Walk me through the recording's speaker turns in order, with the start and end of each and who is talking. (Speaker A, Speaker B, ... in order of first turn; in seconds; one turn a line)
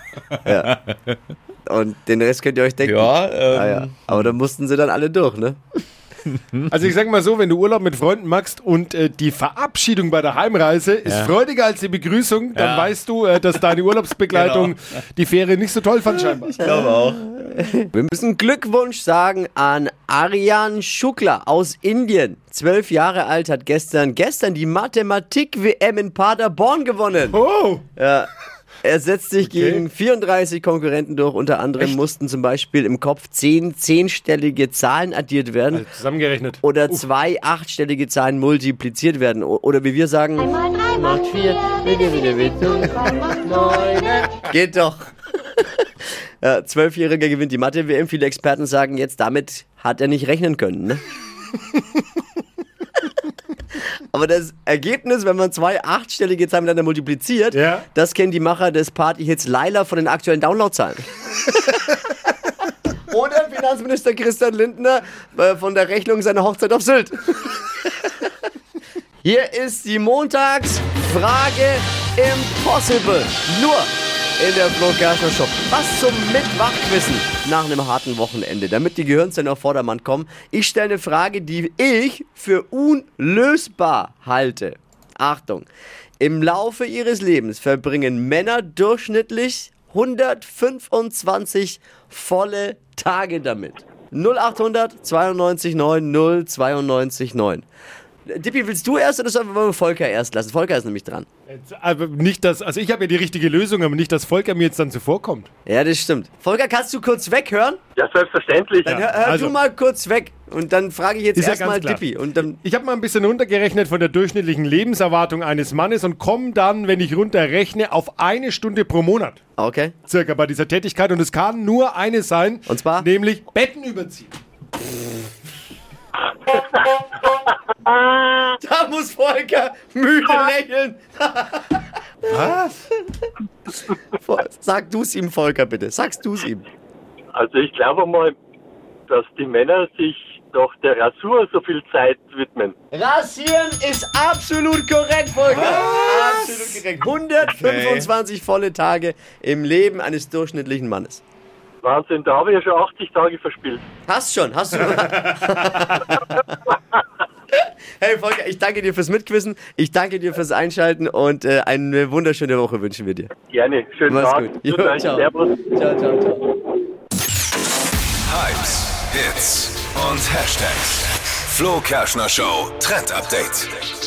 Speaker A: 0.3-1.1
Speaker B: 0.4-0.8
Speaker B: 1.7-5.6
Speaker A: 2.8-4.3
Speaker A: 6.3-6.7
Speaker C: 6.7-16.5
Speaker A: 11.1-11.3
Speaker A: 12.5-13.0
Speaker A: 14.3-14.8
Speaker A: 16.6-17.3
Speaker B: 16.6-16.9
Speaker B: 17.5-27.4
Speaker C: 27.5-27.8
Speaker B: 28.0-28.3
Speaker B: 28.8-35.8
Speaker C: 29.4-29.8
Speaker C: 35.8-37.0
Speaker B: 36.6-43.2
Speaker B: 44.3-45.7
Speaker B: 46.4-51.0
Speaker B: 54.1-61.1
Speaker C: 57.5-57.8
Speaker B: 61.7-62.0
Speaker B: 63.1-67.6
Speaker B: 69.2-85.7
Speaker B: 86.2-97.6
Speaker B: 98.3-101.2
Speaker C: 101.5-105.5
Speaker B: 105.7-107.8
Speaker D: 108.0-109.0
Speaker B: 108.8-112.6
Speaker C: 108.9-109.5
Speaker C: 111.4-112.0
Speaker C: 112.6-119.4
Speaker B: 119.6-119.9
Speaker C: 120.1-124.3
Speaker B: 122.7-123.1
Speaker D: 127.8-128.5
Speaker B: 128.6-131.8
Speaker C: 132.3-132.7
Speaker B: 134.2-136.7
Speaker D: 137.3-138.3
Speaker D: 139.1-142.7
Speaker B: 142.9-151.2
Speaker A: 145.7-146.1
Speaker A: 147.4-148.1
Speaker D: 151.8-153.8
Speaker B: 154.1-156.2
Speaker B: 157.6-163.3
Speaker D: 163.5-165.7
Speaker B: 164.1-166.4
Speaker E: 168.3-173.7